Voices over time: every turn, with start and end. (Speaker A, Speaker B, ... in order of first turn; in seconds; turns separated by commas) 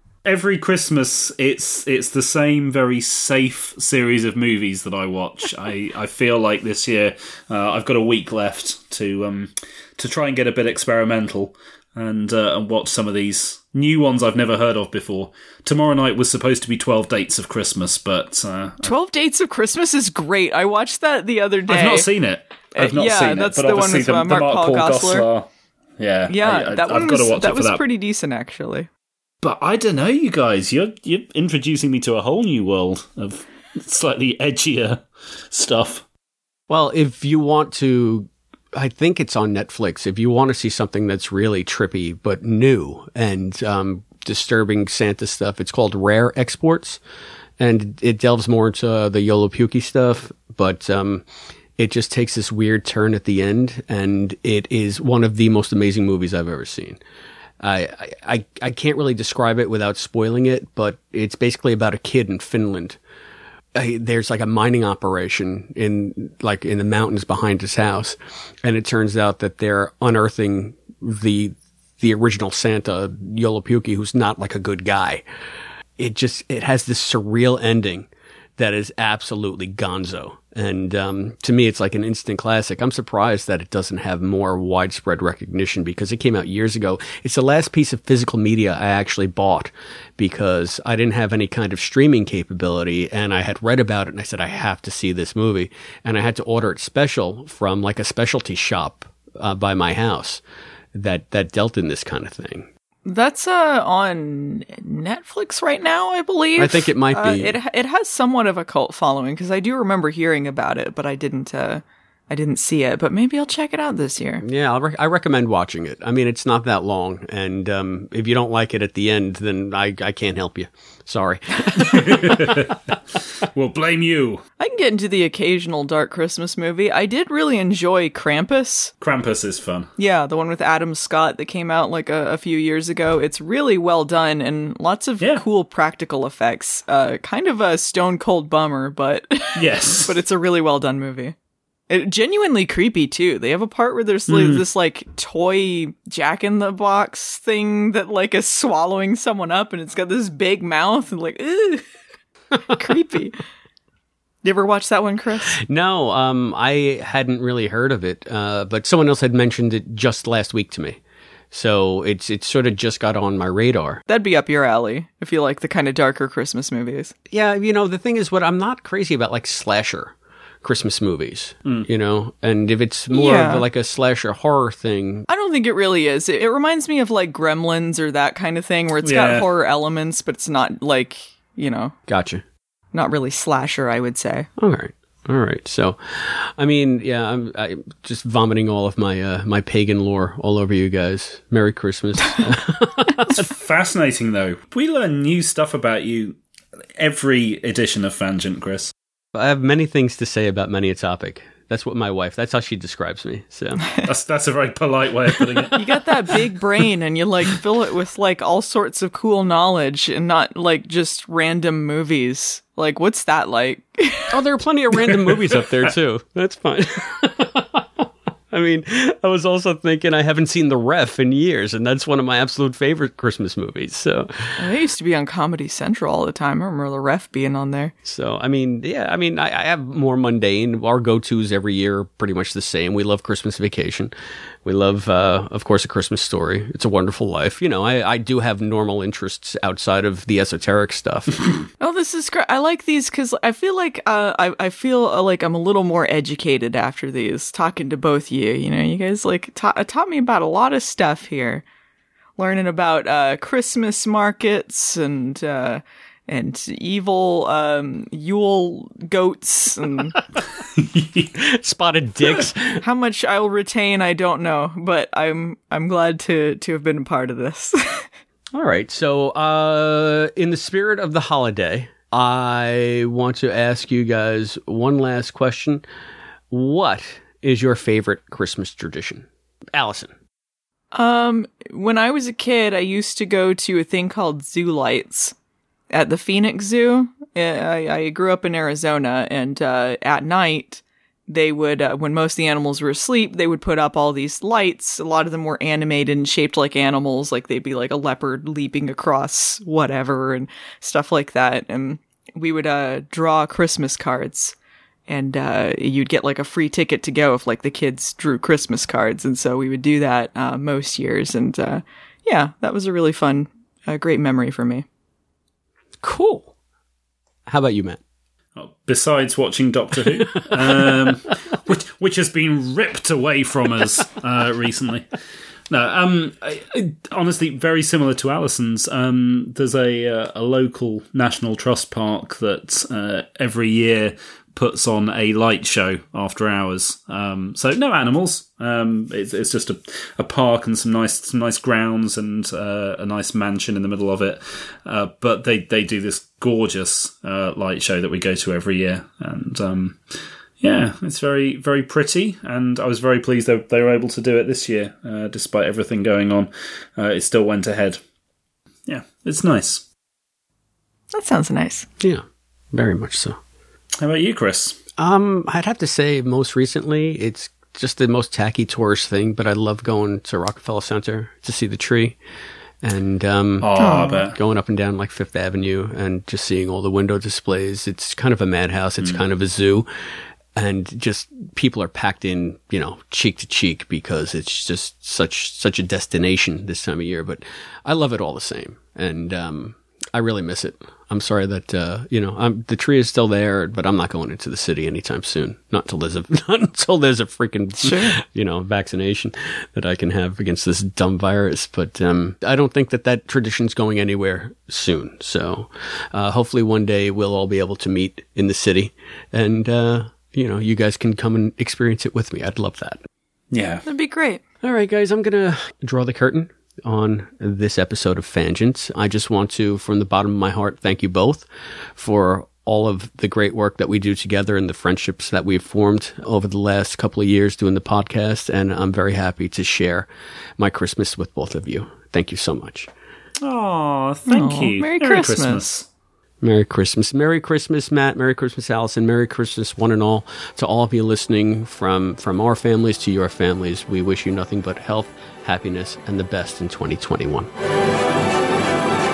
Speaker A: 0.2-18.9, Speaker B: 18.8-22.1, Speaker A: 21.7-27.8, Speaker B: 22.7-25.3, Speaker B: 26.3-28.9, Speaker A: 29.4-36.0, Speaker C: 36.7-47.0, Speaker C: 47.6-51.2, Speaker C: 51.8-57.0, Speaker C: 57.6-63.0, Speaker C: 63.8-75.2, Speaker C: 76.0-100.4, Speaker C: 100.9-102.7, Speaker B: 103.0-114.4, Speaker C: 106.6-107.5, Speaker C: 114.4-122.6, Speaker A: 121.8-122.9, Speaker A: 123.4-124.4, Speaker B: 124.6-128.9, Speaker A: 129.0-129.9, Speaker B: 130.0-141.3, Speaker A: 139.6-140.2, Speaker B: 141.9-151.8, Speaker A: 144.3-144.6, Speaker B: 152.7-153.4, Speaker B: 154.4-155.6, Speaker C: 155.6-161.0, Speaker C: 161.5-164.0, Speaker B: 164.1-167.1, Speaker C: 167.3-175.3, Speaker B: 173.1-173.7, Speaker B: 175.3-182.0, Speaker A: 179.0-179.5, Speaker C: 182.1-182.4, Speaker B: 182.9-184.5, Speaker C: 184.6-193.5, Speaker A: 193.3-196.4, Speaker A: 197.0-198.9, Speaker C: 199.3-203.8, Speaker A: 204.1-206.3, Speaker B: 205.7-214.4, Speaker C: 214.3-224.6, Speaker B: 224.6-227.9, Speaker C: 228.1-234.1, Speaker C: 234.7-241.4, Speaker B: 241.8-251.7, Speaker B: 252.4-260.2, Speaker A: 260.6-261.3, Speaker C: 261.4-262.8, Speaker B: 262.8-268.1, Speaker C: 268.5-275.8, Speaker C: 276.5-280.1, Speaker B: 280.9-285.3, Speaker B: 285.9-304.6, Speaker B: 305.1-314.9, Speaker C: 316.0-316.5, Speaker C: 317.5-318.0, Speaker A: 318.6-325.1, Speaker A: 325.7-358.0, Speaker A: 358.9-359.9, Speaker B: 361.1-361.9, Speaker C: 362.0-363.4, Speaker A: 364.0-364.8, Speaker C: 365.0-372.2, Speaker C: 372.8-379.9, Speaker A: 373.6-374.4, Speaker B: 373.8-374.2, Speaker C: 380.6-413.0, Speaker B: 397.8-398.1, Speaker A: 413.5-413.8, Speaker B: 413.9-414.4, Speaker C: 414.6-421.5, Speaker C: 422.0-432.9, Speaker A: 433.4-435.9, Speaker B: 434.3-435.6, Speaker C: 436.4-447.5